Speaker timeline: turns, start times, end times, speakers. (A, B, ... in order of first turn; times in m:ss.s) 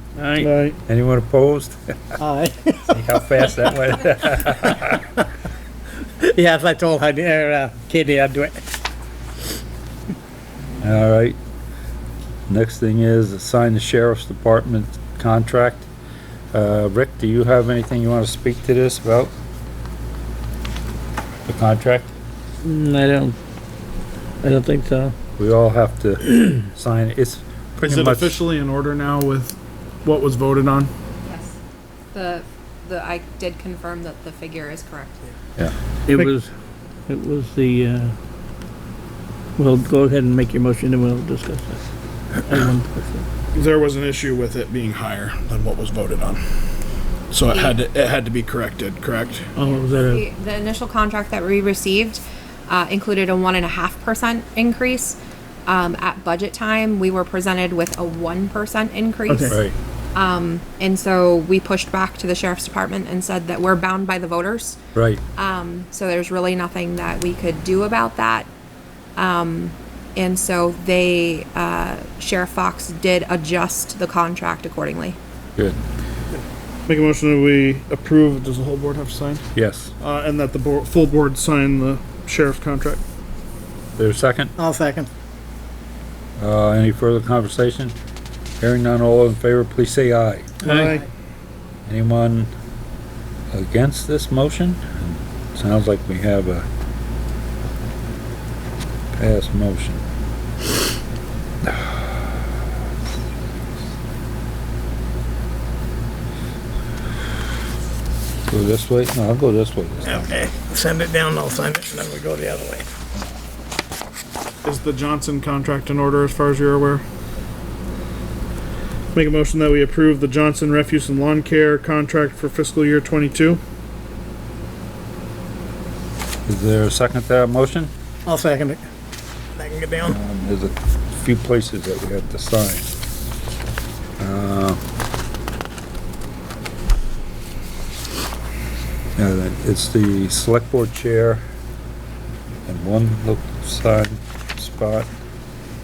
0:00.2-0:00.5 A
0:00.4-0:00.8 B
0:00.9-0:01.9 C
0:02.2-0:02.9 D
0:02.9-0:05.1 C
0:06.2-0:08.6 D
0:10.8-0:11.4 C
0:12.5-0:15.9 C
0:16.5-0:19.3 C
0:21.5-0:22.1 C
0:22.6-0:23.4 A
0:24.4-0:25.2 A
0:25.4-0:28.4 C
0:27.8-0:30.9 B
0:31.2-0:31.6 E
0:32.1-0:35.3 E
0:36.1-0:36.5 A
0:37.1-0:38.1 A
0:39.6-0:41.8 A
0:42.4-0:43.3 A
0:43.5-0:46.4 B
0:47.3-0:49.5 B
0:49.6-0:50.2 A
0:50.0-0:59.6 E
0:59.3-0:59.6 B
0:59.5-0:59.7 C
1:00.1-1:04.8 E
1:04.9-1:05.2 C
1:05.4-1:08.5 E
1:09.2-1:15.2 E
1:16.9-1:19.5 B
1:19.5-1:19.9 C
1:20.0-1:23.0 B
1:24.0-1:24.5 C
1:24.6-1:25.1 D
1:26.4-1:27.9 C
1:28.6-1:30.5 C
1:30.6-1:31.0 B
1:30.6-1:30.9 A
1:30.7-1:30.9 D
1:31.9-1:32.5 C
1:33.5-1:36.7 C
1:39.1-1:40.0 C
1:41.6-1:42.2 C
1:48.5-1:50.3 C
1:50.0-1:52.9 D
1:54.6-1:57.0 B
1:59.1-2:03.6 B
2:06.4-2:07.9 C
2:08.2-2:08.8 D
2:09.5-2:10.2 D
2:10.0-2:12.9 C
2:14.2-2:14.8 C
2:19.2-2:21.4 C
2:22.7-2:25.1 C